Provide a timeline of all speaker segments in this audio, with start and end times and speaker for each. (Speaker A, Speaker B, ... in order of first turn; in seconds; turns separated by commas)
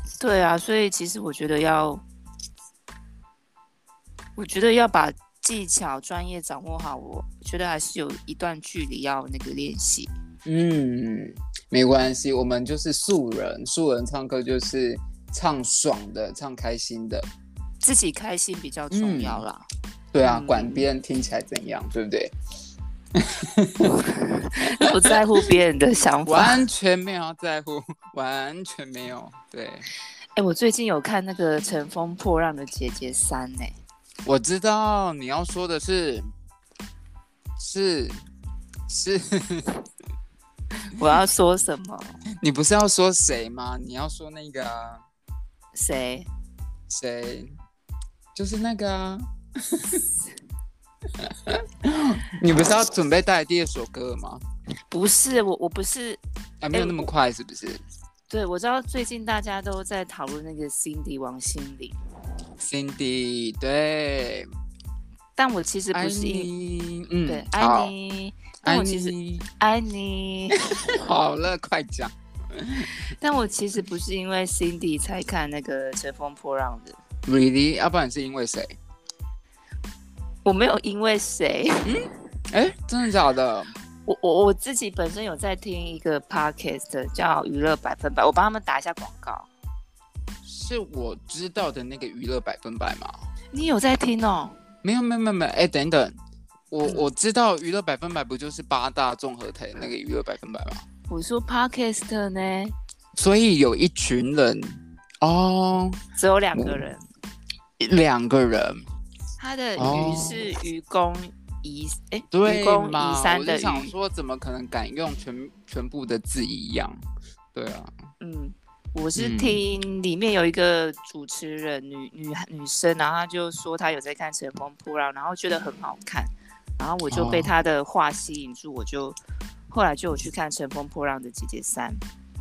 Speaker A: 0.2-2.0, Speaker A: 4.4-10.1, Speaker B: 10.4-17.3, Speaker A: 17.8-19.6, Speaker B: 18.9-19.4, Speaker B: 20.1-22.3, Speaker A: 20.2-20.8, Speaker B: 23.1-24.0, Speaker A: 24.1-26.6, Speaker B: 24.7-25.4, Speaker B: 26.2-29.9, Speaker A: 30.4-33.7, Speaker B: 34.2-36.3, Speaker B: 37.6-38.2, Speaker B: 38.9-39.8, Speaker A: 40.9-42.2, Speaker B: 42.4-45.0, Speaker A: 45.8-46.3, Speaker B: 46.9-47.5, Speaker B: 48.3-50.0, Speaker B: 51.2-54.4, Speaker A: 54.9-56.2, Speaker B: 56.6-57.8, Speaker A: 56.7-57.1, Speaker A: 58.3-62.0, Speaker B: 62.6-64.5, Speaker A: 65.3-66.5, Speaker B: 65.9-67.9, Speaker A: 67.3-70.6, Speaker B: 68.6-69.4, Speaker B: 70.8-72.9, Speaker A: 72.9-77.0, Speaker B: 77.2-78.8, Speaker A: 80.4-81.9, Speaker B: 81.8-83.7, Speaker A: 84.0-89.5, Speaker B: 90.4-93.1, Speaker A: 93.5-94.5, Speaker B: 94.8-96.2, Speaker B: 96.7-100.8, Speaker A: 101.1-102.7, Speaker B: 103.2-106.0, Speaker A: 106.2-107.0, Speaker B: 107.8-108.8, Speaker A: 109.4-113.9, Speaker B: 109.8-110.5, Speaker B: 112.3-117.0, Speaker B: 117.5-117.9, Speaker A: 118.2-129.2, Speaker B: 119.2-119.6, Speaker B: 127.1-127.5, Speaker A: 129.7-132.0